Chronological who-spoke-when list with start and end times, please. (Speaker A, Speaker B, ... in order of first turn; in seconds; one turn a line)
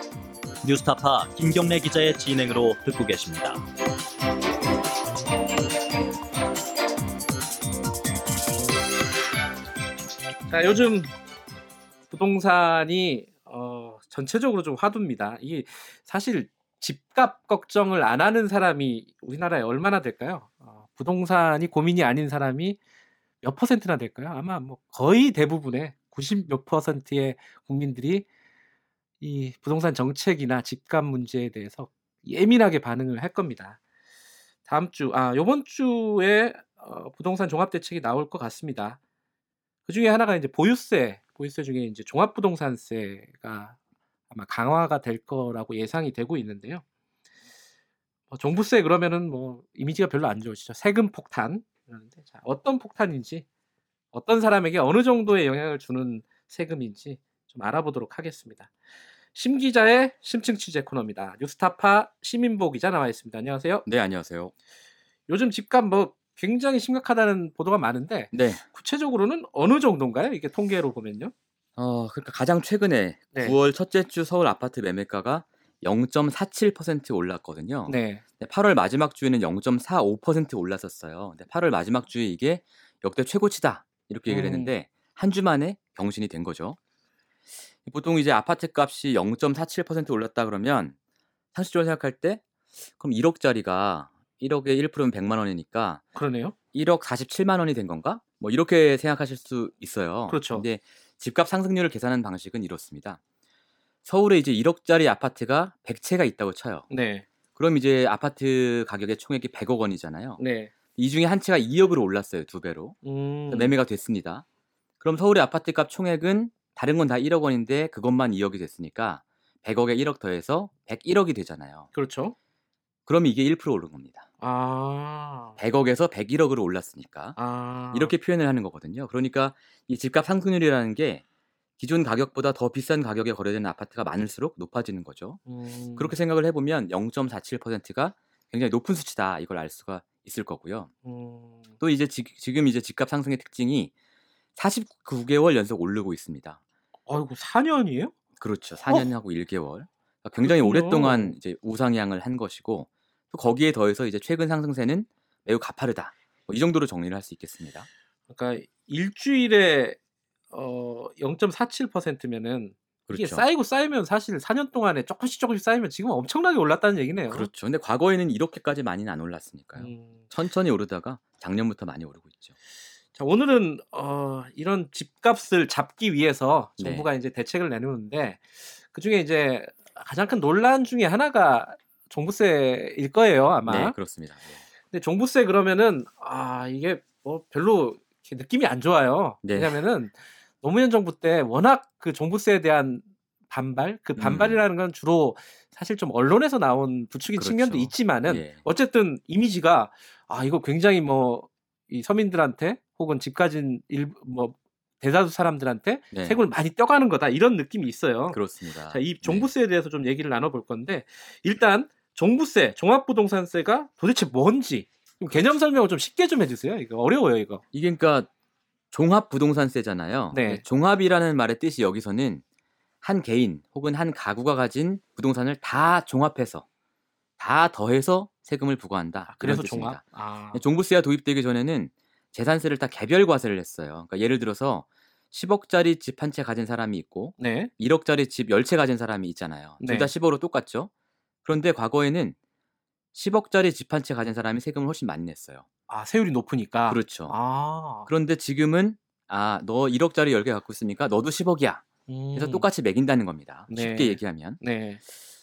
Speaker A: 0.6-3.7
Speaker B: 10.5-11.1
Speaker B: 12.1-22.8
Speaker B: 23.4-28.3
Speaker B: 29.2-33.8
Speaker B: 34.7-39.0
Speaker B: 39.9-43.8
Speaker B: 44.3-46.8
Speaker B: 48.3-53.5
Speaker B: 54.1-58.7
Speaker B: 59.3-63.9
Speaker C: 63.9-64.5
Speaker B: 65.3-71.3
Speaker C: 68.3-68.6
Speaker C: 71.8-86.8
Speaker B: 77.9-78.2
Speaker B: 84.3-84.7
Speaker C: 87.8-91.0
Speaker C: 91.5-96.0
Speaker B: 96.2-96.5
Speaker C: 96.7-103.2
Speaker B: 100.3-100.7
Speaker C: 104.0-106.9
Speaker B: 106.9-107.3
Speaker C: 107.6-110.4
Speaker B: 110.4-110.7
Speaker C: 111.0-113.0
Speaker B: 113.0-113.8
Speaker C: 113.5-114.4
Speaker C: 115.0-121.9
Speaker B: 121.9-122.3
Speaker C: 123.1-124.3
Speaker B: 124.4-125.6
Speaker C: 125.6-127.4
Speaker B: 127.4-128.2
Speaker C: 127.9-131.2
Speaker C: 131.8-135.4
Speaker B: 135.5-136.2
Speaker C: 136.0-140.9
Speaker B: 141.0-141.7
Speaker C: 141.8-143.9
Speaker C: 144.6-146.6
Speaker B: 147.1-148.1
Speaker C: 148.4-157.9
Speaker B: 150.4-151.4
Speaker B: 158.3-160.0
Speaker B: 160.5-167.5
Speaker C: 163.1-163.5
Speaker C: 167.3-172.5
Speaker B: 169.8-170.2
Speaker B: 173.2-184.0
Speaker C: 176.8-177.1
Speaker C: 183.7-184.6
Speaker B: 184.9-217.6
Speaker C: 189.4-189.8
Speaker C: 194.2-194.7
Speaker C: 197.3-198.6
Speaker C: 206.1-206.4
Speaker C: 208.3-209.5
Speaker C: 217.7-218.3
Speaker C: 218.9-222.4
Speaker B: 220.3-220.6
Speaker C: 223.0-226.7
Speaker C: 227.4-240.9
Speaker B: 229.3-230.6
Speaker B: 237.4-237.7
Speaker B: 239.8-240.1
Speaker C: 241.4-242.3
Speaker C: 243.1-245.7
Speaker B: 245.9-248.1
Speaker C: 246.9-247.4
Speaker C: 248.1-254.6
Speaker B: 252.1-252.7
Speaker B: 253.7-255.0